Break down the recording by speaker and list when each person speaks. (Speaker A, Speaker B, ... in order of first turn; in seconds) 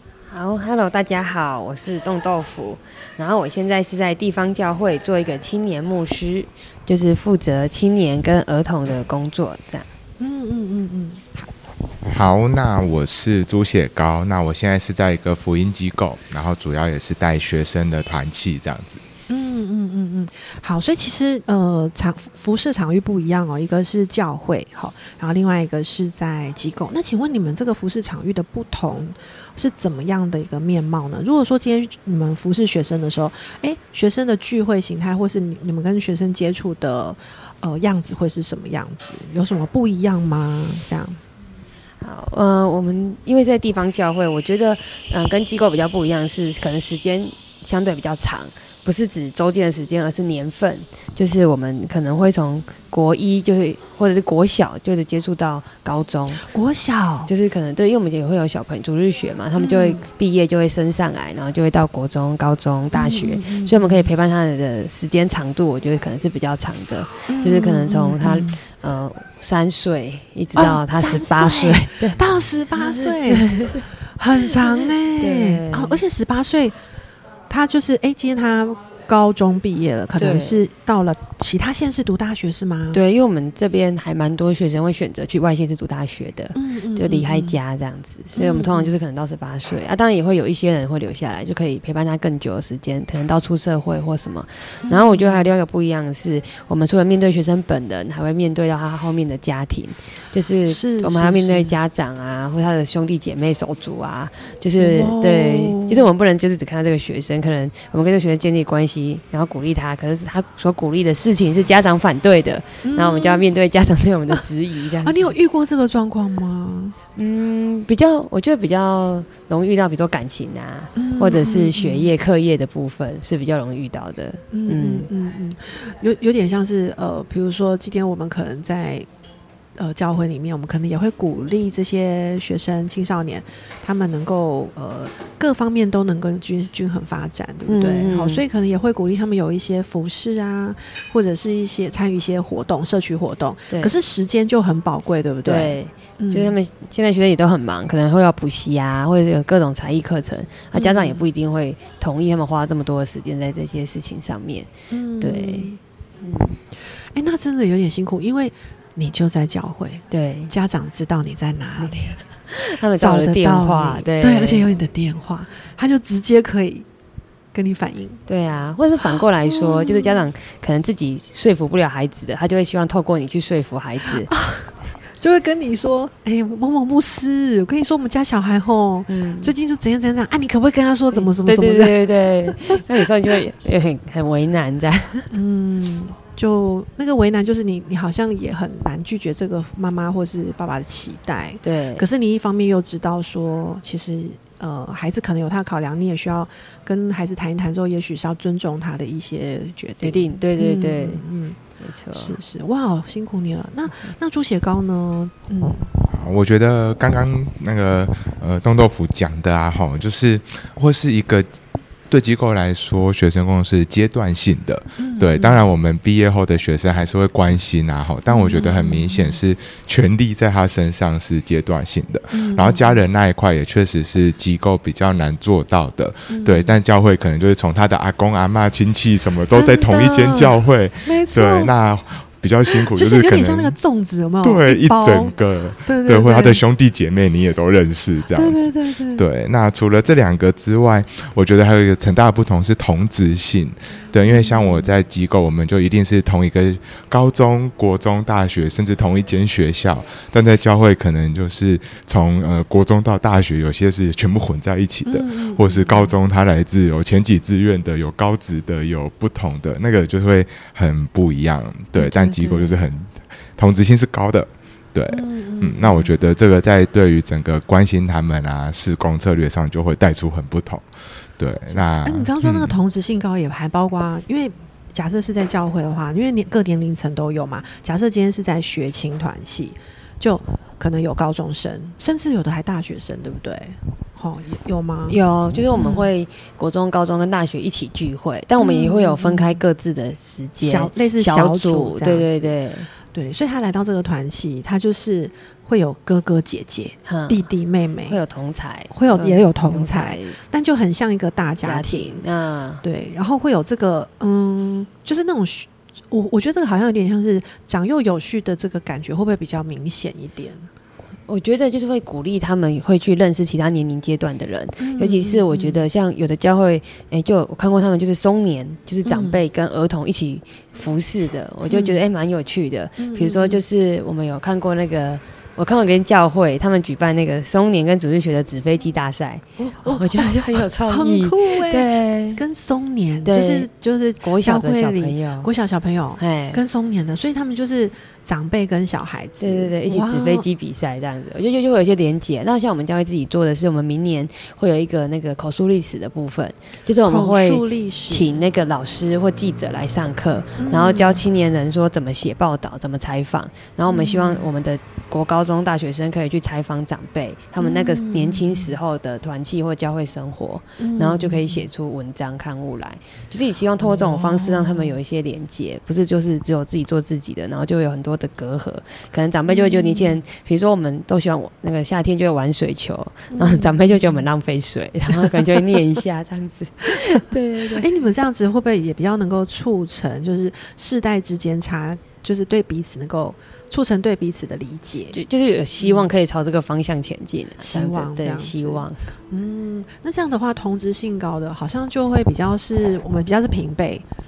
Speaker A: 0.3-9.9, 42.0-56.5, 57.3-72.2, 72.8-73.9, 74.5-76.0, 80.2-80.6, 82.9-115.4, 117.2-125.1, 137.7-138.4, 145.4-154.7, 155.2-155.7, 156.2-156.6, 160.1-160.5, 161.8-164.7, 168.3-174.3, 179.1-179.5, 181.1-185.3, 191.6-192.1, 200.0-201.2, 201.8-202.4, 285.1-292.9, 297.1-297.5, 298.1-300.4, 301.6-302.8, 311.3-332.4, 333.2-333.7, 334.2-335.5, 336.2-336.6, 339.4-377.9, 385.1-389.1
Speaker B: 10.2-11.5, 19.3-41.2, 56.4-57.3, 59.6-60.0, 62.9-64.1, 67.3-68.6, 70.6-76.8, 77.5-83.0, 86.5-87.6, 88.4-88.9, 94.8-95.5, 100.7-101.8, 104.8-106.1, 112.8-113.5, 115.0-117.0, 121.0-122.1, 124.5-129.1, 129.8-146.6, 150.7-151.3, 154.9-155.8, 157.1-162.2, 162.9-166.9, 167.5-168.2, 169.1-170.3, 174.1-183.3, 185.3-201.6, 202.1-205.9, 215.0-215.7, 218.3-219.4, 222.3-223.0, 226.3-226.8, 229.5-231.7, 232.7-235.3, 235.9-236.6, 238.3-239.2, 244.2-244.9, 255.1-256.2, 262.0-262.8, 265.1-266.1, 271.7-286.1, 288.6-289.6, 290.6-298.2, 298.9-302.2, 302.8-310.7, 314.8-315.9, 319.1-319.4, 321.7-322.0, 323.0-323.6, 329.6-340.5, 347.1-348.4, 350.6-351.2, 353.9-354.5, 357.6-358.8, 360.8-361.7, 363.8-365.0, 369.5-370.2, 373.3-374.3, 375.1-375.8, 376.9-385.2, 385.8-386.1, 387.6-394.1
Speaker C: 12.1-19.0, 206.1-211.5, 212.1-233.8, 234.4-270.9, 271.4-272.8